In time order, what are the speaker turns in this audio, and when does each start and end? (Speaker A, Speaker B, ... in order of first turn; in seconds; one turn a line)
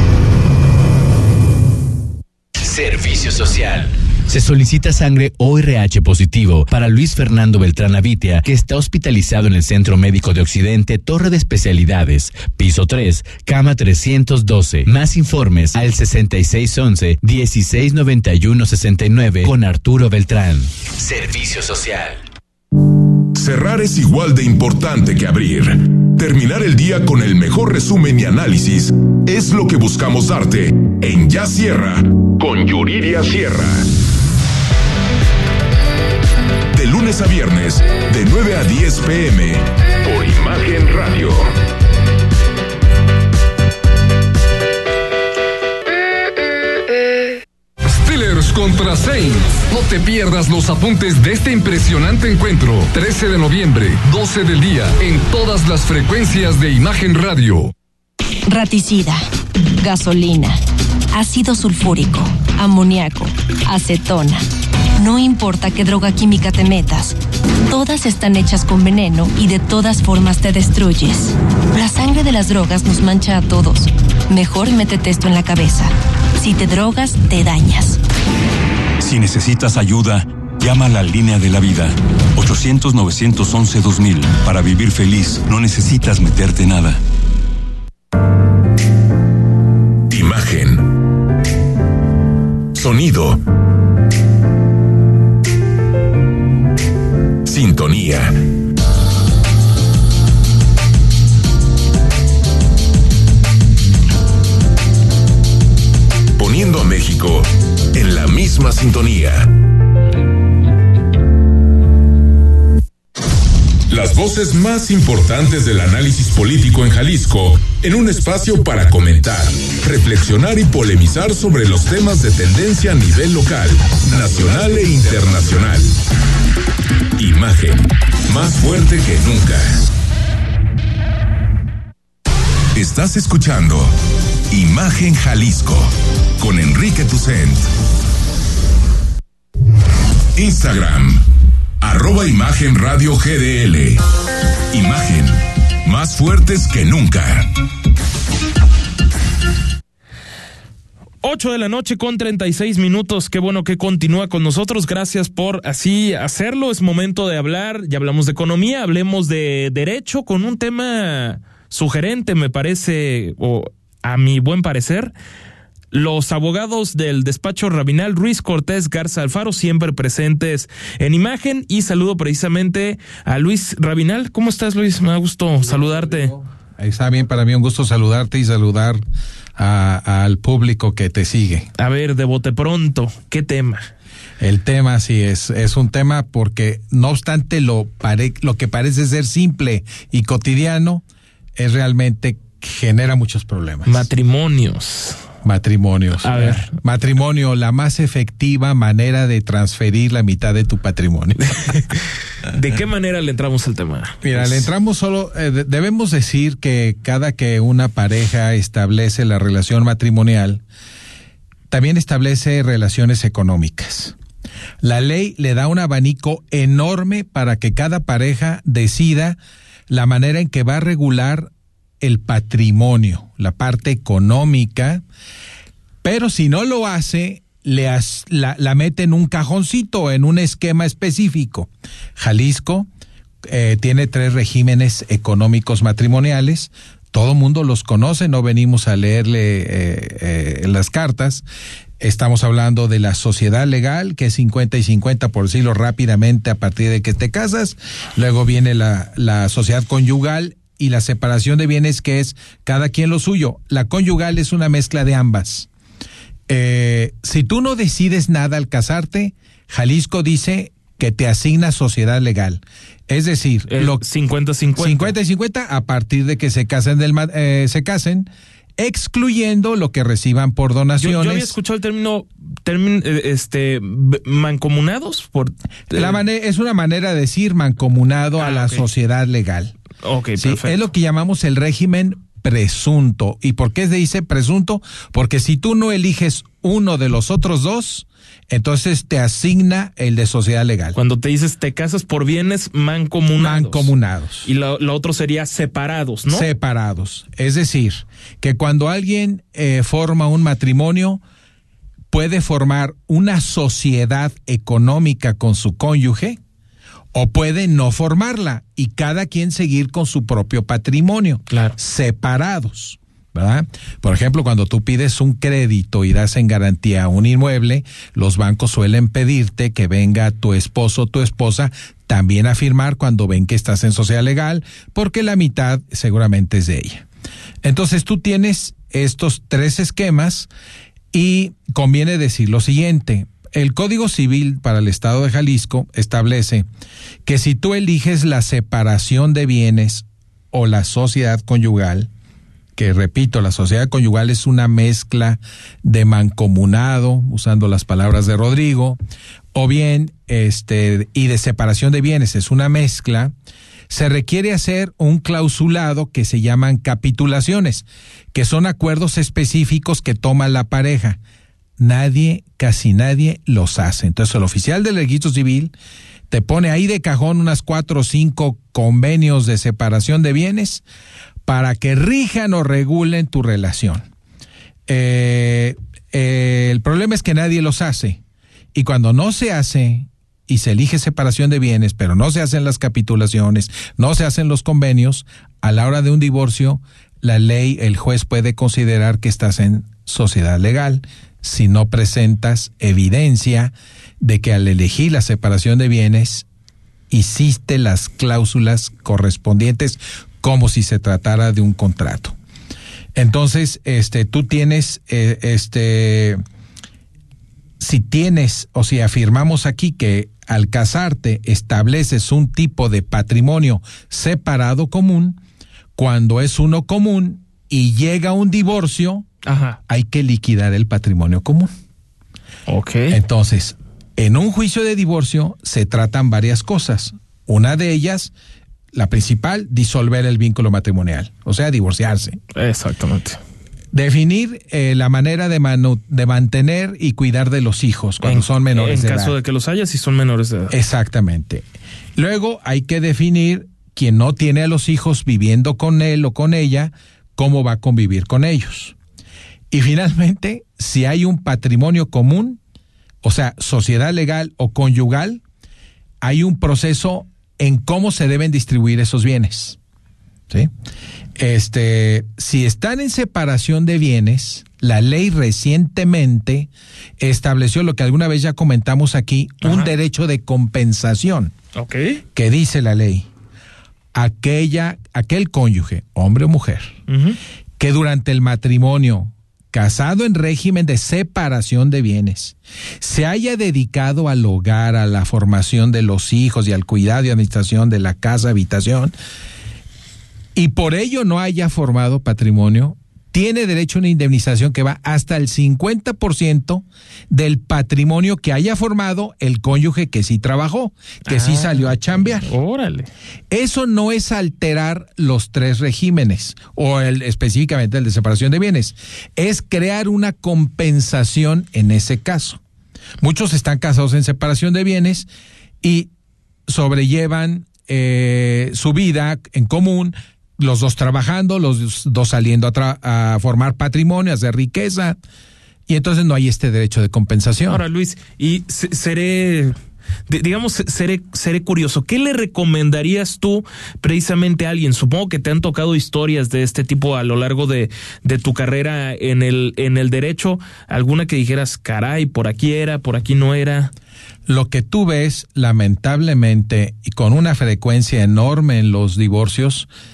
Speaker A: 2.6-22.2
Speaker B: 23.3-33.9
Speaker B: 36.7-41.5
Speaker C: 47.9-57.7
Speaker D: 58.5-59.3
Speaker D: 59.8-60.6
Speaker D: 61.1-64.4
Speaker D: 65.0-67.2
Speaker D: 67.7-78.0
Speaker E: 79.0-87.0
Speaker B: 90.1-90.9
Speaker B: 92.7-93.4
Speaker B: 97.5-98.4
Speaker B: 106.4-109.5
Speaker B: 113.9-125.9
Speaker B: 127.2-129.8
Speaker B: 132.8-133.9
Speaker B: 134.5-137.7
Speaker B: 140.3-141.2
Speaker B: 141.8-144.0
Speaker B: 144.7-147.5
Speaker F: 151.2-165.1
Speaker F: 165.9-176.3
Speaker G: 175.6-179.0
Speaker G: 179.6-181.7
Speaker F: 181.8-183.9
Speaker G: 184.4-191.0
Speaker G: 191.6-194.1
Speaker F: 193.8-195.2
Speaker G: 195.4-201.5
Speaker F: 196.2-196.7
Speaker F: 202.5-204.7
Speaker G: 204.2-210.6
Speaker G: 211.7-214.2
Speaker G: 214.8-219.4
Speaker G: 219.9-225.0
Speaker G: 226.0-232.9
Speaker G: 233.4-241.4
Speaker G: 242.0-255.7
Speaker G: 256.5-264.0
Speaker F: 263.7-265.2
Speaker G: 264.8-271.6
Speaker F: 271.0-276.2
Speaker G: 275.9-279.7
Speaker F: 278.4-278.9
Speaker F: 280.0-280.8
Speaker G: 280.4-291.0
Speaker F: 290.9-293.9
Speaker G: 293.4-294.5
Speaker F: 294.4-296.5
Speaker G: 296.3-301.2
Speaker G: 302.1-306.4
Speaker G: 307.1-327.1
Speaker F: 311.5-311.8
Speaker G: 327.6-330.5
Speaker G: 331.1-336.7
Speaker G: 337.3-342.1
Speaker G: 342.8-349.0
Speaker G: 349.5-353.3
Speaker G: 353.9-361.2
Speaker G: 361.8-365.7
Speaker G: 366.3-370.8
Speaker G: 371.4-374.1
Speaker G: 374.9-378.2
Speaker G: 378.7-396.4
Speaker G: 397.1-402.4
Speaker G: 403.1-406.4
Speaker G: 407.8-415.4
Speaker G: 416.0-419.3
Speaker F: 419.4-419.8
Speaker G: 419.9-421.7
Speaker F: 422.7-423.2
Speaker G: 423.1-428.3
Speaker G: 428.9-432.4
Speaker F: 432.5-433.4
Speaker G: 433.9-439.4
Speaker F: 438.2-440.8
Speaker G: 440.7-441.6
Speaker G: 442.2-448.9
Speaker G: 449.7-452.6
Speaker G: 453.2-455.4
Speaker G: 456.2-459.8
Speaker G: 461.4-471.5
Speaker F: 469.6-469.9
Speaker F: 471.8-472.2
Speaker G: 472.3-473.3
Speaker G: 474.1-477.0
Speaker F: 477.1-477.4
Speaker G: 477.8-489.1
Speaker G: 490.6-502.5
Speaker F: 501.3-503.1
Speaker G: 503.5-512.6
Speaker G: 513.2-515.3
Speaker G: 515.8-516.1
Speaker G: 516.7-525.2
Speaker G: 525.9-527.8
Speaker F: 527.7-529.8
Speaker F: 530.3-543.9
Speaker G: 544.5-549.9